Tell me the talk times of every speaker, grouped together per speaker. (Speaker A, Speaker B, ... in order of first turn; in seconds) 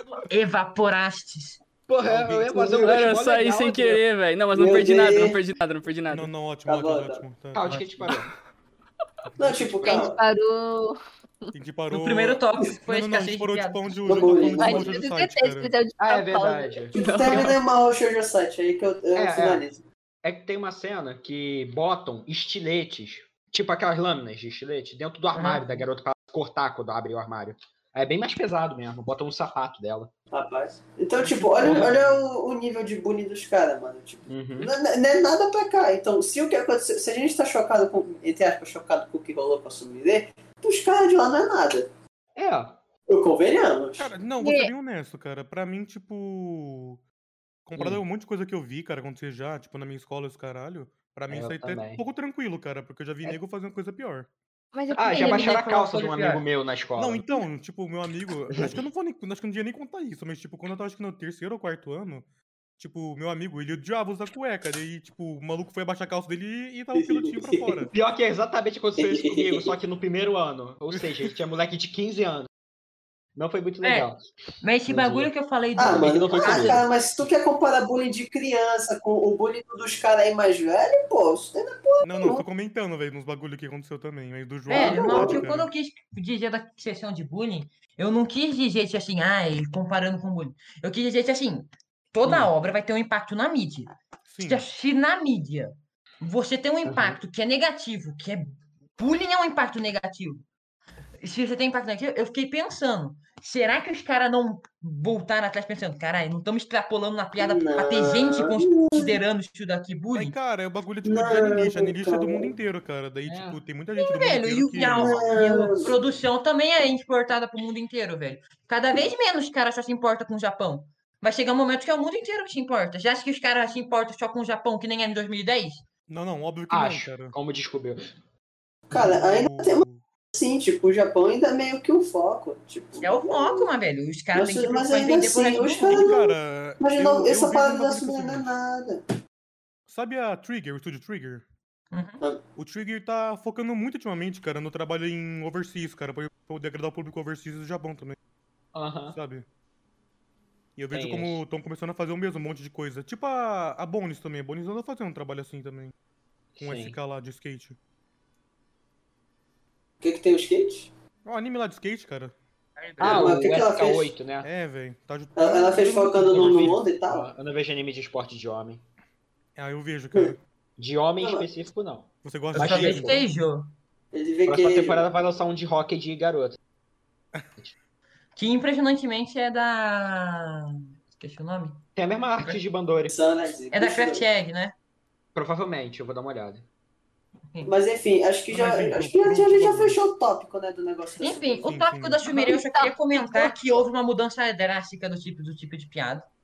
Speaker A: 0.3-1.6, 11.9-14.4, 25.3-25.8, 55.1-56.4, 73.8-74.1, 74.6-76.8, 84.7-100.4, 101.2-110.3, 114.0-125.8, 133.0-136.1, 141.9-142.2, 172.5-173.7, 178.3-181.8, 183.7-184.7, 191.2-196.2
Speaker B: 1.9-4.0, 7.5-8.3, 9.6-10.0, 16.0-17.6, 19.1-19.6, 20.2-30.1, 31.3-32.1, 34.3-34.7, 42.4-42.8, 47.8-48.0, 51.3-52.0, 54.9-57.3, 67.9-72.5, 73.3-74.2, 74.9-75.3, 75.8-76.9, 96.8-97.2, 113.2-113.6, 126.7-128.0, 148.7-149.2, 150.9-151.4, 156.6-157.0, 163.0-164.5, 166.3-168.8, 170.8-173.2, 174.4-176.6, 181.9-183.2, 185.3-186.7
Speaker C: 2.0-2.6, 6.1-8.1, 11.5-15.7, 44.0-47.0, 47.6-54.3, 57.0-62.2, 62.8-67.9, 70.9-71.3, 82.0-85.7, 94.3-94.7, 110.1-115.2, 126.1-127.3, 128.9-130.0, 135.8-138.5, 139.9-141.4, 142.6-148.2, 149.1-149.4, 150.8-155.9, 156.6-157.8, 161.2-162.3, 163.0-163.4, 164.4-166.8, 169.6-170.4, 172.2-173.2, 188.5-190.0, 191.6-192.2
Speaker D: 2.6-6.3, 17.0-17.5
Speaker E: 4.5-5.4, 6.7-7.2, 9.4-10.2, 14.1-14.9, 16.9-19.8, 30.3-41.9, 43.1-44.1, 66.9-67.9, 69.0-69.7, 75.8-82.4, 84.7-85.4, 107.4-109.2, 111.0-112.5, 114.9-116.0, 128.9-133.7, 134.3-139.0, 160.0-160.9, 163.0-164.1, 165.3-167.3, 171.2-171.4, 174.1-175.1, 183.1-184.2, 187.6-191.6
Speaker F: 9.8-11.5, 14.5-17.4, 44.4-44.7, 54.7-55.6, 192.2-193.8